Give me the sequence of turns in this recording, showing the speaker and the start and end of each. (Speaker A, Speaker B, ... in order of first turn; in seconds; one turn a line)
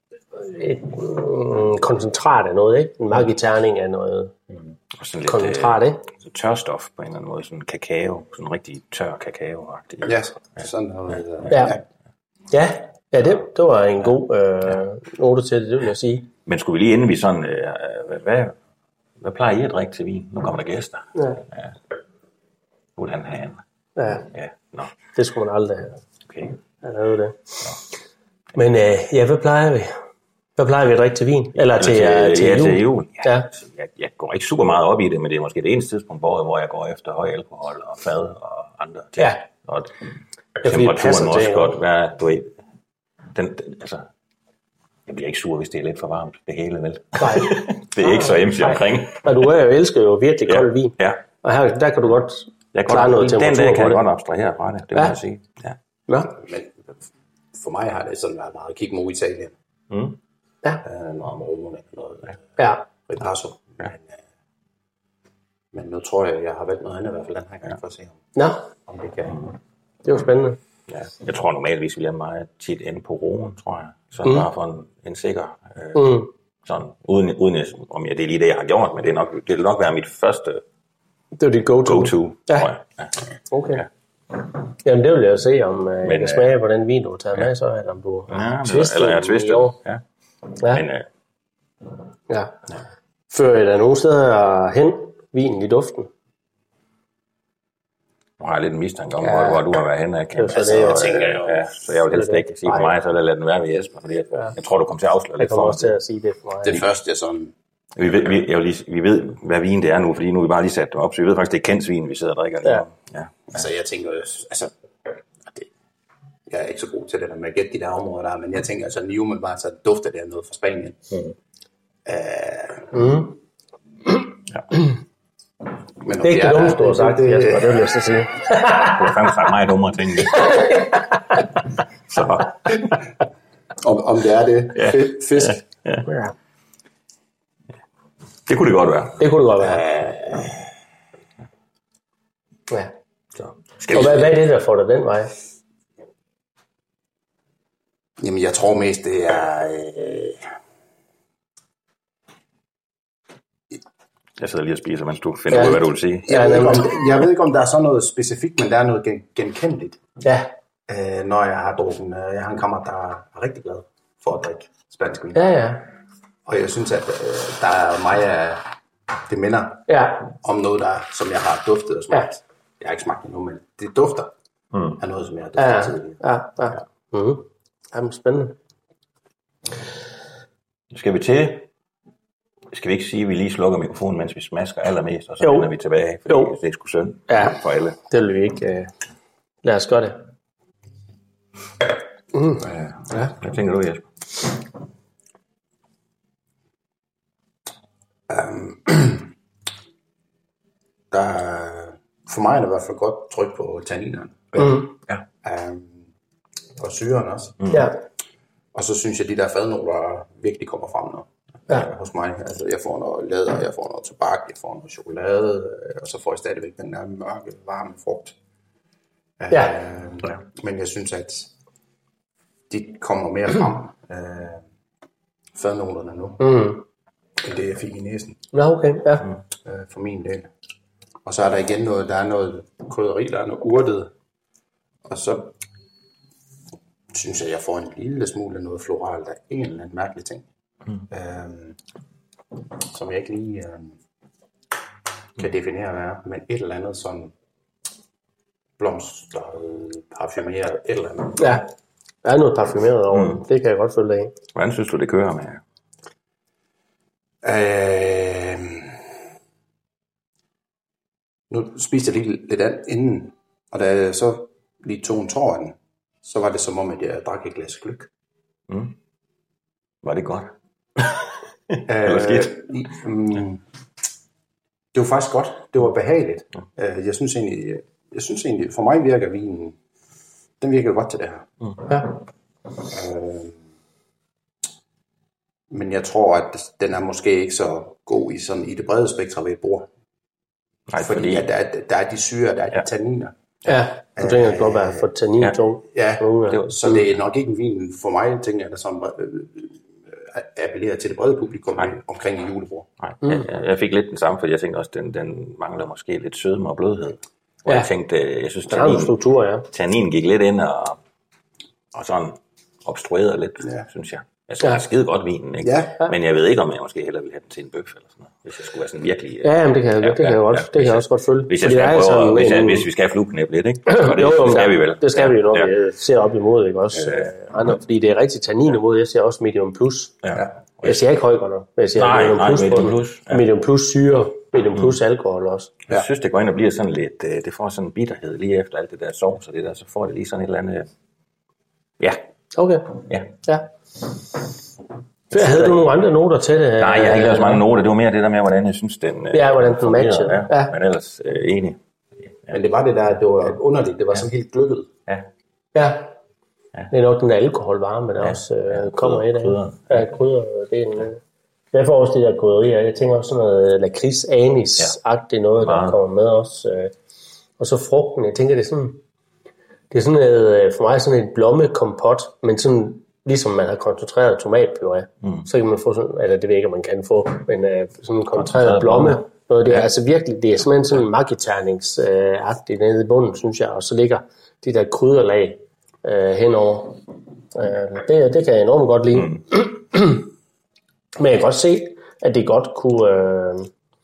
Speaker A: 0.3-4.3
Speaker B: 4.9-10.6
Speaker A: 5.3-6.0
Speaker C: 10.0-11.8
Speaker A: 11.5-11.8
Speaker A: 12.5-16.3
Speaker B: 16.5-18.6
Speaker B: 19.2-21.7
Speaker A: 21.1-21.4
Speaker B: 23.0-23.6
Speaker A: 24.0-24.2
Speaker B: 24.2-24.9
Speaker A: 25.2-26.0
Speaker B: 26.3-26.6
Speaker A: 26.8-27.4
Speaker A: 28.6-29.9
Speaker A: 30.6-33.5
Speaker B: 31.7-39.9
Speaker A: 39.2-39.4
Speaker B: 40.6-42.5
Speaker A: 40.6-41.7
Speaker B: 43.3-44.1
Speaker B: 45.1-49.3
Speaker A: 47.2-54.0
Speaker B: 50.5-51.2
Speaker B: 52.7-55.8
Speaker A: 56.1-56.4
Speaker C: 56.4-57.0
Speaker C: 57.5-59.6
Speaker B: 59.9-60.2
Speaker C: 60.8-62.4
Speaker A: 62.6-62.9
Speaker C: 63.1-64.2
Speaker C: 65.7-68.2
Speaker A: 68.3-68.7
Speaker C: 68.8-69.4
Speaker A: 70.0-70.6
Speaker B: 70.9-80.6
Speaker A: 76.0-76.3
Speaker A: 81.4-82.7
Speaker B: 81.8-83.1
Speaker A: 83.5-83.8
Speaker A: 84.8-89.8
Speaker B: 86.0-86.6
Speaker B: 88.3-90.0
Speaker A: 90.6-90.8
Speaker B: 90.7-91.0
Speaker A: 92.3-92.6
Speaker A: 93.3-96.1
Speaker B: 98.4-106.0
Speaker A: 99.2-99.7
Speaker A: 100.4-101.4
Speaker C: 100.5-101.7
Speaker A: 102.1-102.9
Speaker A: 105.4-106.8
Speaker C: 106.6-107.5
Speaker B: 108.0-113.6
Speaker C: 113.5-114.7
Speaker C: 116.5-121.0
Speaker C: 122.1-122.9
Speaker A: 122.9-123.4
Speaker C: 126.0-128.0
Speaker A: 126.2-129.3
Speaker B: 128.7-130.9
Speaker A: 130.3-131.1
Speaker B: 132.1-133.0
Speaker C: 133.8-135.6
Speaker B: 134.8-136.1
Speaker A: 136.1-136.3
Speaker B: 138.5-139.3
Speaker A: 139.2-139.8
Speaker C: 139.6-140.6
Speaker B: 143.4-144.3
Speaker A: 143.9-145.3
Speaker C: 148.2-150.5
Speaker B: 154.4-156.4
Speaker A: 155.5-156.9
Speaker C: 156.2-160.0
Speaker A: 160.2-160.5
Speaker C: 160.9-165.5
Speaker A: 165.3-165.9
Speaker C: 166.5-168.7
Speaker C: 169.3-174.3
Speaker A: 169.9-170.3
Speaker B: 174.7-175.0
Speaker C: 175.0-176.2
Speaker A: 175.6-178.6
Speaker B: 180.9-181.7
Speaker B: 182.7-188.0
Speaker A: 185.4-185.7
Speaker A: 186.3-186.5
Speaker A: 187.3-188.9
Speaker A: 189.6-190.2
Speaker A: 192.3-193.3
Speaker B: 192.6-194.1
Speaker C: 198.3-199.3
Speaker C: 201.1-204.7
Speaker A: 204.6-204.9
Speaker C: 205.4-206.1
Speaker C: 206.8-207.8
Speaker A: 207.7-208.0
Speaker C: 208.7-218.4
Speaker C: 219.4-221.5
Speaker C: 222.7-224.6
Speaker C: 225.5-226.4
Speaker A: 226.4-226.8
Speaker C: 227.4-228.4
Speaker A: 228.5-229.3
Speaker C: 229.7-230.5
Speaker C: 231.2-234.1
Speaker C: 235.1-235.6
Speaker C: 237.1-240.4
Speaker C: 241.1-241.8
Speaker C: 242.9-244.0
Speaker C: 245.4-247.3
Speaker C: 248.8-251.5
Speaker A: 251.4-251.7
Speaker A: 252.2-254.3
Speaker B: 253.1-253.4
Speaker B: 254.5-255.6
Speaker C: 257.4-259.1
Speaker C: 261.5-268.1
Speaker B: 268.7-268.9
Speaker B: 270.0-272.6
Speaker C: 271.9-273.6
Speaker C: 274.9-279.8
Speaker C: 280.6-281.5
Speaker C: 282.9-283.6
Speaker C: 285.7-289.9
Speaker B: 290.9-291.5
Speaker C: 291.0-295.1
Speaker A: 293.7-296.6
Speaker C: 295.9-302.9
Speaker B: 296.5-297.0
Speaker B: 303.0-309.2
Speaker A: 308.7-309.7
Speaker B: 309.7-311.0
Speaker B: 311.9-325.7
Speaker C: 315.6-316.0
Speaker A: 319.4-322.9
Speaker A: 323.9-330.1
Speaker B: 327.0-327.3
Speaker B: 330.2-331.0
Speaker A: 330.8-335.7
Speaker B: 332.0-333.4
Speaker B: 335.9-340.9
Speaker A: 342.6-343.7
Speaker A: 345.3-347.6
Speaker B: 345.3-345.8
Speaker B: 346.8-351.8
Speaker A: 349.3-350.7
Speaker C: 352.5-354.9
Speaker A: 355.8-356.1
Speaker A: 356.9-361.2
Speaker B: 358.2-360.1
Speaker A: 361.7-366.9
Speaker B: 365.6-366.0
Speaker A: 367.6-369.0
Speaker A: 369.9-390.3
Speaker B: 378.4-379.9
Speaker B: 389.2-389.4
Speaker A: 391.2-393.7